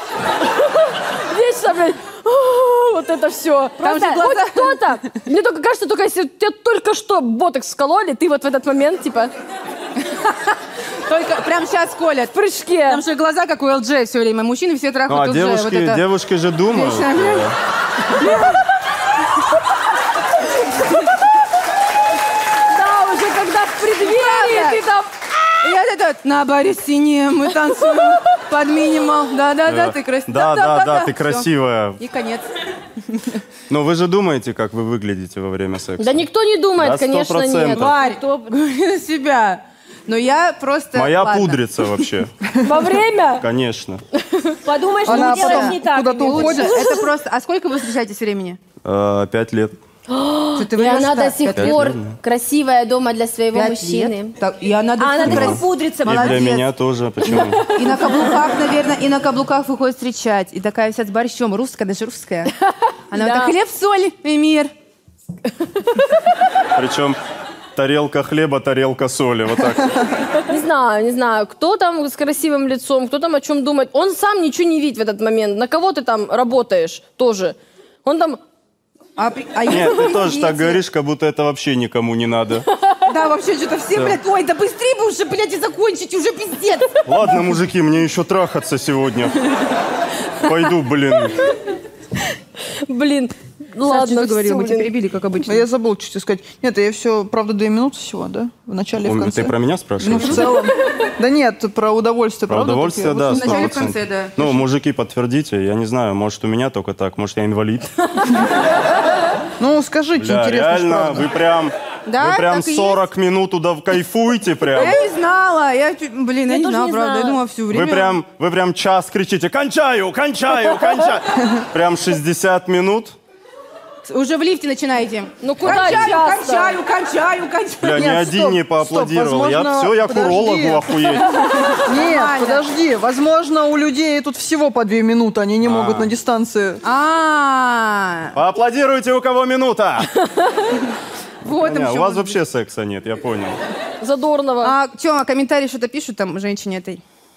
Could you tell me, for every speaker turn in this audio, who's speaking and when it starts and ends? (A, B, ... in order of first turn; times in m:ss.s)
0:00.4-0:09.3 A
0:03.8-0:05.0 B
0:03.9-0:04.2 C
0:10.0-0:16.0 B
0:12.3-0:13.0 A
0:15.1-0:17.6 D
0:16.7-0:17.5 B
0:18.1-0:18.6 B
0:22.7-0:25.1 A
0:24.0-0:24.8 B
0:25.6-0:33.4 B
0:29.7-0:32.0 D
0:33.7-0:36.2 D
0:36.0-0:37.9 A
0:36.8-0:37.9 D
0:37.7-0:41.6 B
0:37.8-0:38.5 C
0:41.0-0:42.3 D
0:42.6-0:43.5 A
0:43.4-0:44.0 D
0:44.2-0:44.6 A
0:44.6-0:47.1 C
0:45.0-0:47.0 E
0:45.0-0:48.6 B
0:48.8-0:49.8 D
0:50.1-0:54.4 A
0:50.6-0:51.9 B
0:51.5-0:52.2 D
0:53.5-0:56.7 B
0:55.0-0:56.5 C
0:55.2-0:57.7 D
0:57.5-0:58.1 A
0:57.6-1:02.5 B
1:03.1-1:04.7 B
1:03.2-1:03.6 A
1:05.7-1:06.2 A
1:06.8-1:07.2 D
1:07.8-1:10.1 D
1:10.5-1:18.4 A
1:19.2-1:20.8 B
1:19.7-1:22.7 D
1:23.1-1:27.0 B
1:27.0-1:29.5 D
1:30.4-1:31.6 D
1:32.8-1:34.9 A
1:33.8-1:35.7 B
1:35.5-1:43.8 E
1:39.0-1:40.6 D
1:40.5-1:41.0 A
1:42.5-1:48.4 D
1:43.3-1:44.6 B
1:49.6-1:51.3 E
1:50.2-1:55.0 D
1:52.1-1:53.0 B
1:54.7-1:58.2 B
1:56.5-1:57.4 C
1:57.7-2:03.2 D
2:04.0-2:08.1 B
2:05.4-2:06.8 A
2:07.8-2:11.5 D
2:07.9-2:10.9 E
2:11.4-2:12.6 B
2:11.8-2:16.8 E
2:15.6-2:16.1 D
2:16.8-2:18.4 B
2:18.3-2:20.1 D
2:21.4-2:22.4 B
2:21.5-2:23.6 D
2:24.0-2:24.7 A
2:24.6-2:27.0 B